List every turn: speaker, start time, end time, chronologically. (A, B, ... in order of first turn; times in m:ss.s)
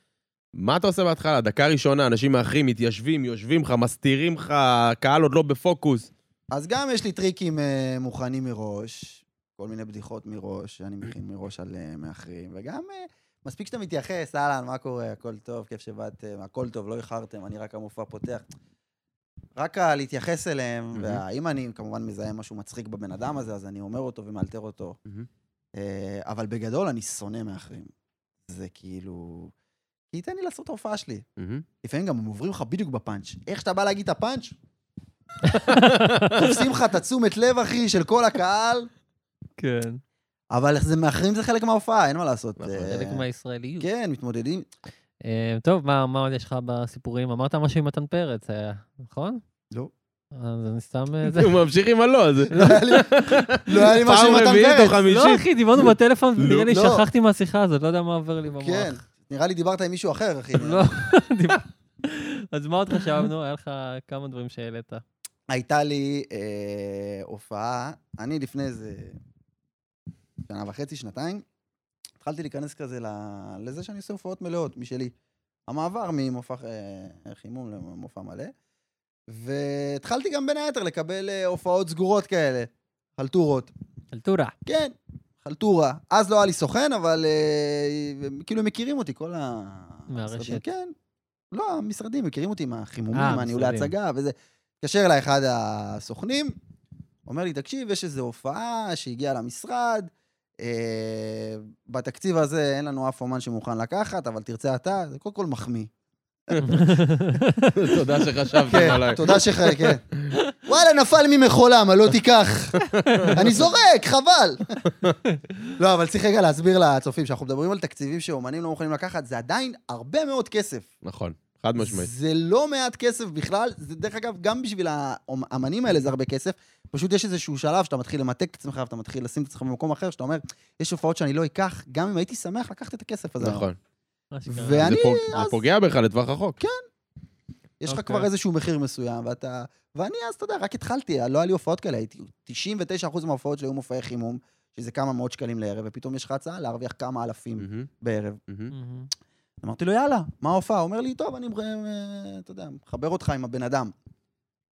0:00.5-0:06.1 A
0:06.5-0:18.4 B
0:19.6-0:25.0 B
0:20.9-0:21.2 A
0:25.8-0:27.9 B
0:28.4-0:29.5 B
0:30.1-0:31.2 B
0:31.4-0:31.6 A
0:31.8-0:34.6 B
0:35.4-0:36.5 C
0:35.7-0:36.3 A
0:36.3-0:38.9 B
0:39.6-0:40.0 C
0:40.5-0:43.2 B
0:42.7-0:43.9 C
0:43.8-0:44.7 B
0:45.2-0:49.4 C
0:50.3-0:51.5 C
0:51.2-0:56.7 A
0:52.5-0:55.0 B
0:55.0-0:59.0 C
0:56.7-0:57.0 B
0:58.5-1:00.9 B
1:00.5-1:05.0 C
1:05.5-1:09.2 B
1:10.4-1:11.4 B
1:12.2-1:15.1 B
1:15.7-1:18.5 B
1:19.3-1:23.7 B
1:24.1-1:24.5 C
1:24.6-1:30.9 B
1:30.1-1:30.6 C
1:31.5-1:36.6 B
1:33.1-1:33.9 C
1:37.2-1:45.9 B
1:46.5-1:46.8 A
1:46.6-1:47.7 C
1:47.7-1:49.4 A
1:48.6-1:49.4 C
1:48.7-1:50.0 B
1:50.6-1:54.8 B
1:52.8-1:53.5 A
1:53.1-1:53.4 C
1:55.8-2:00.9 B
2:01.0-2:02.1 A
2:01.8-2:13.7 B
2:13.4-2:13.8 A
2:14.3-2:15.0 C
2:14.5-2:15.6 B
2:14.7-2:16.6 A
2:17.8-2:28.4 B
2:17.9-2:18.3 C
2:27.6-2:27.9 A
2:28.5-2:28.7 A
2:28.7-2:29.1 C
2:29.6-2:33.9 B